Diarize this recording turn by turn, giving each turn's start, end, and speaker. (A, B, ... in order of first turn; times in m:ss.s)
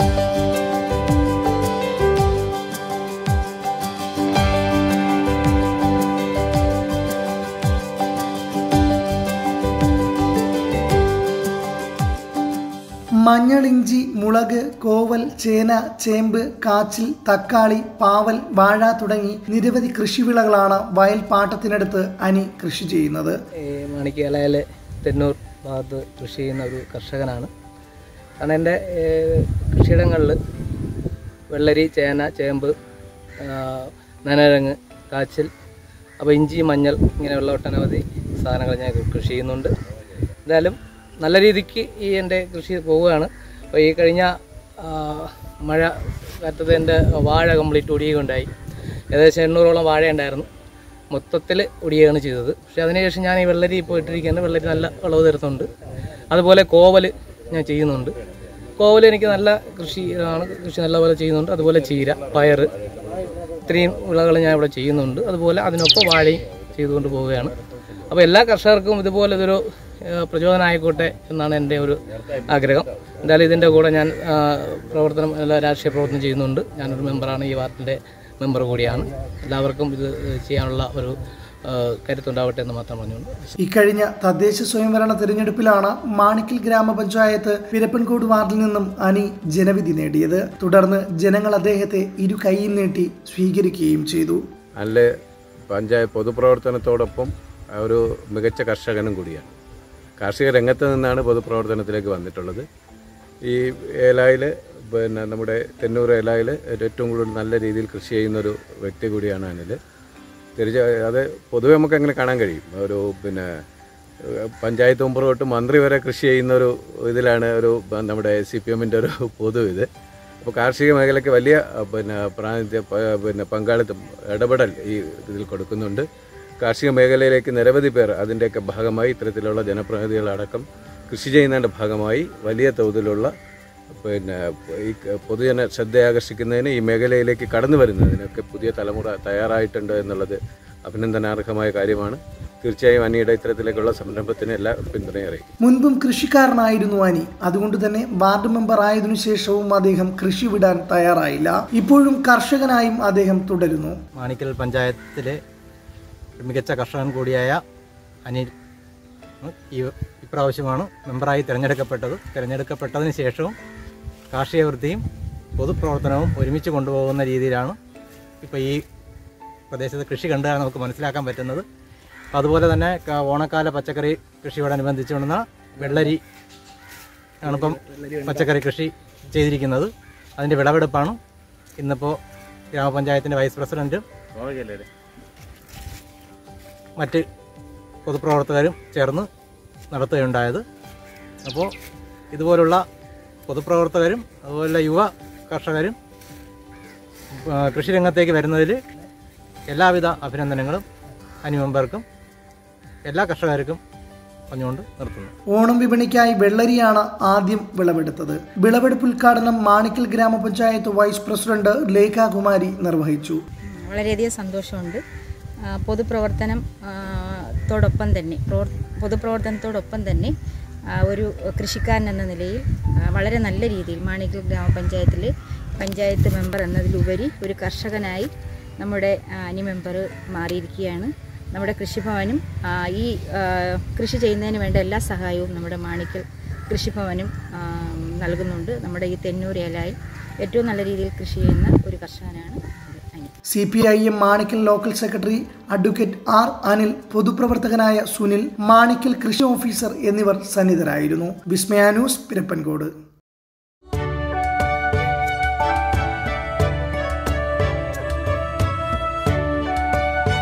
0:13.2-0:23.4 A
0:23.6-0:27.5 B
0:28.4-0:30.4 B
0:31.5-0:32.7 B
0:33.4-0:35.5 B
0:36.2-0:39.7 B
0:40.4-0:48.5 B
0:49.1-0:50.5 B
0:51.1-0:55.7 B
0:56.3-0:58.1 B
0:58.8-1:02.7 B
1:03.7-1:07.5 B
1:08.1-1:23.5 B
1:23.6-1:34.4 A
1:34.8-1:35.1 C
1:35.7-1:39.5 C
1:40.2-1:42.6 C
1:43.5-1:49.8 C
1:50.6-1:53.5 C
1:54.3-1:59.9 C
2:00.4-2:06.1 C
2:06.6-2:13.3 C
2:14.0-2:25.4 C
2:25.6-2:34.0 A
2:34.2-2:35.4 D
2:36.4-2:37.6 D
2:38.2-2:38.5 D
2:39.4-2:43.5 D
2:44.3-2:45.0 D
2:45.6-2:47.8 D
2:48.4-2:48.8 D
2:49.7-2:51.7 D
2:52.3-2:56.2 D
2:57.4-3:01.2 D
2:57.5-2:58.4 B
3:01.8-3:02.2 D
3:02.7-3:04.8 D
3:07.0-3:07.2 D
3:08.1-3:09.3 D
3:09.9-3:10.6 D
3:11.4-3:11.7 D
3:12.3-3:12.8 D
3:13.5-3:16.0 D
3:17.3-3:18.8 D
3:19.7-3:20.8 D
3:21.4-3:22.0 D
3:23.1-3:23.8 D
3:24.5-3:25.3 D
3:25.5-3:33.4 A
3:33.7-3:35.0 E
3:35.7-3:40.3 E
3:40.9-4:03.3 E
4:03.5-4:12.9 A